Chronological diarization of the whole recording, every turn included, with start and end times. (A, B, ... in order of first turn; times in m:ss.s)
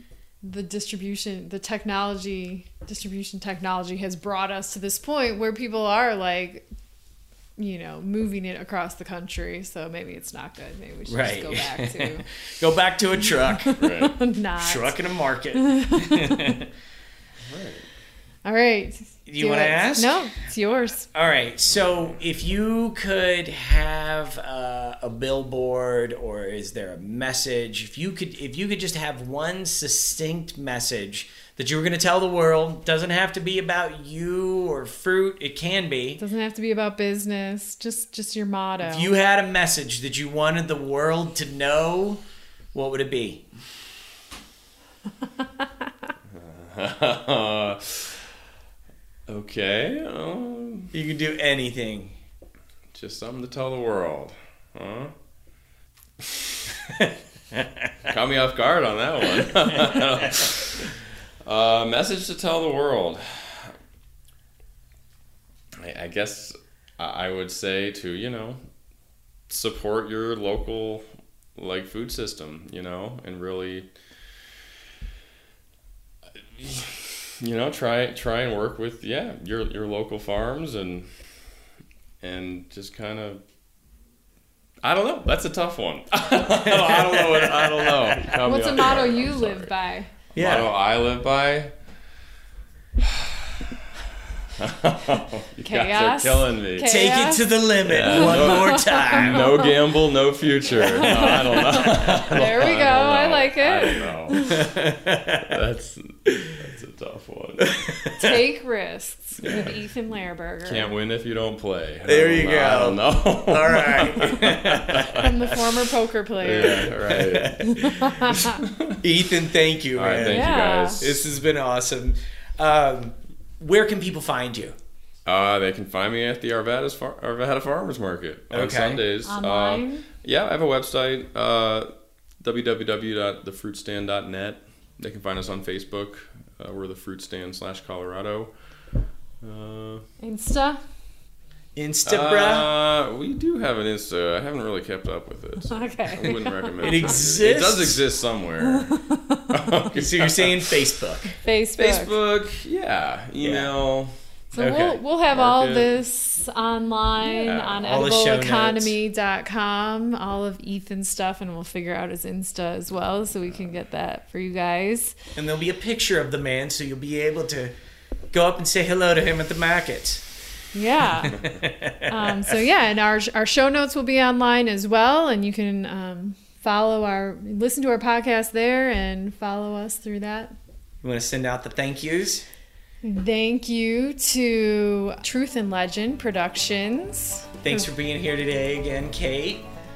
0:00.4-0:06.6 A
0:07.6-0:12.3 A
0:11.0-0:13.8 B
0:13.3-0:15.0 A
0:13.8-0:14.1 C
0:14.6-0:16.7 B
0:15.5-0:16.6 A
0:17.4-0:17.9 C
0:18.4-0:21.1 A
0:19.3-0:20.2 B
0:21.1-0:36.2 B
0:36.2-0:39.1 A
0:38.8-0:42.2 B
0:42.7-0:43.4 B
0:46.3-0:48.3 C
0:49.3-0:50.9 C
0:50.9-0:52.2 B
0:52.9-0:55.1 C
0:56.2-0:56.7 C
0:56.9-0:57.9 B
0:58.0-1:00.9 C
1:01.4-1:03.7 C
1:05.8-1:08.6 C
1:09.5-1:13.9 C
1:16.5-1:21.1 C
1:22.2-1:23.4 C
1:24.8-1:29.7 C
1:26.3-1:28.4 B
1:28.3-1:30.1 A
1:30.3-1:31.7 C
1:30.4-1:30.7 B
1:33.0-1:33.8 C
1:34.6-1:37.1 C
1:35.6-1:39.8 A
1:36.9-1:39.5 B
1:37.8-1:47.8 C
1:40.7-1:44.7 A
1:41.0-1:42.4 B
1:44.4-1:45.6 B
1:46.3-1:46.7 B
1:47.6-1:48.4 B
1:48.2-1:50.9 A
1:49.4-1:49.8 C
1:50.6-1:55.3 C
1:52.0-1:55.7 B
1:55.1-1:56.9 A
1:56.4-1:59.0 C
1:56.6-1:58.4 B
1:57.6-1:58.6 A
1:59.0-2:04.8 B
1:59.9-2:01.3 C
2:00.1-2:01.0 A
2:05.3-2:11.9 C
2:08.5-2:09.0 B
2:09.2-2:10.1 A
2:12.4-2:18.5 C
2:19.4-2:20.0 C
2:20.2-2:20.8 A
2:21.8-2:22.7 B
2:22.0-2:30.9 C
2:25.7-2:27.1 A
2:26.8-2:28.0 B
2:28.6-2:29.4 A
2:29.9-2:31.3 B
2:31.4-2:32.1 A
2:31.8-2:34.1 C
2:33.4-2:33.7 B
2:34.5-2:45.2 A
2:34.6-2:35.0 B
2:35.3-2:36.0 C
2:37.2-2:37.9 C
2:37.7-2:39.0 B
2:45.4-2:47.7 B
2:48.3-2:50.2 B
2:50.7-2:51.4 A
2:51.3-2:52.6 B
2:52.0-3:00.5 A
3:01.0-3:02.4 B
3:03.0-3:07.8 A
3:07.6-3:09.6 B